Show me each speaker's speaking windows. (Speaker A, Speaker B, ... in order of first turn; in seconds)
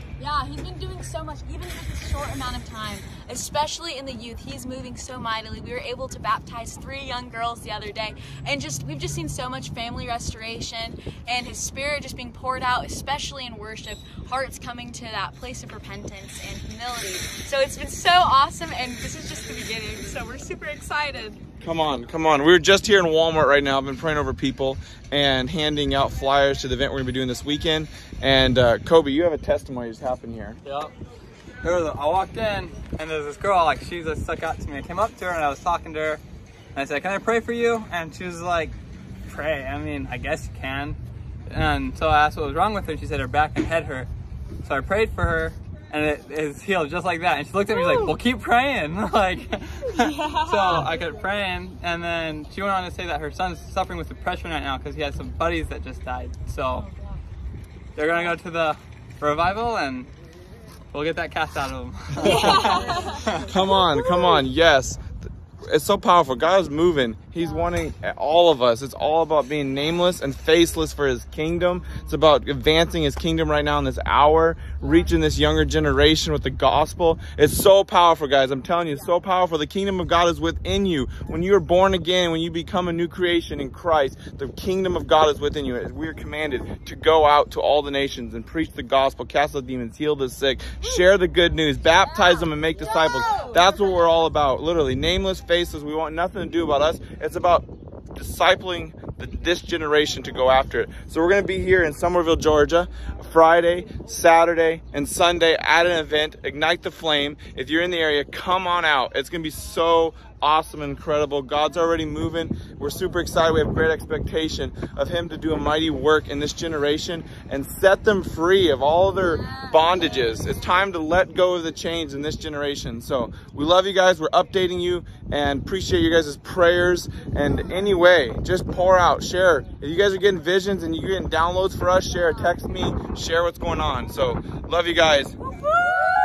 Speaker A: 0.2-21.4, 50.0-51.1, 56.7-57.2, 62.3-64.3, 119.5-120.3
Speaker B: 21.6-30.6, 63.4-65.0, 65.7-135.4
Speaker C: 30.6-30.9, 31.6-36.2, 36.8-38.8, 39.3-44.1, 44.6-56.9, 58.0-60.1, 60.9-63.5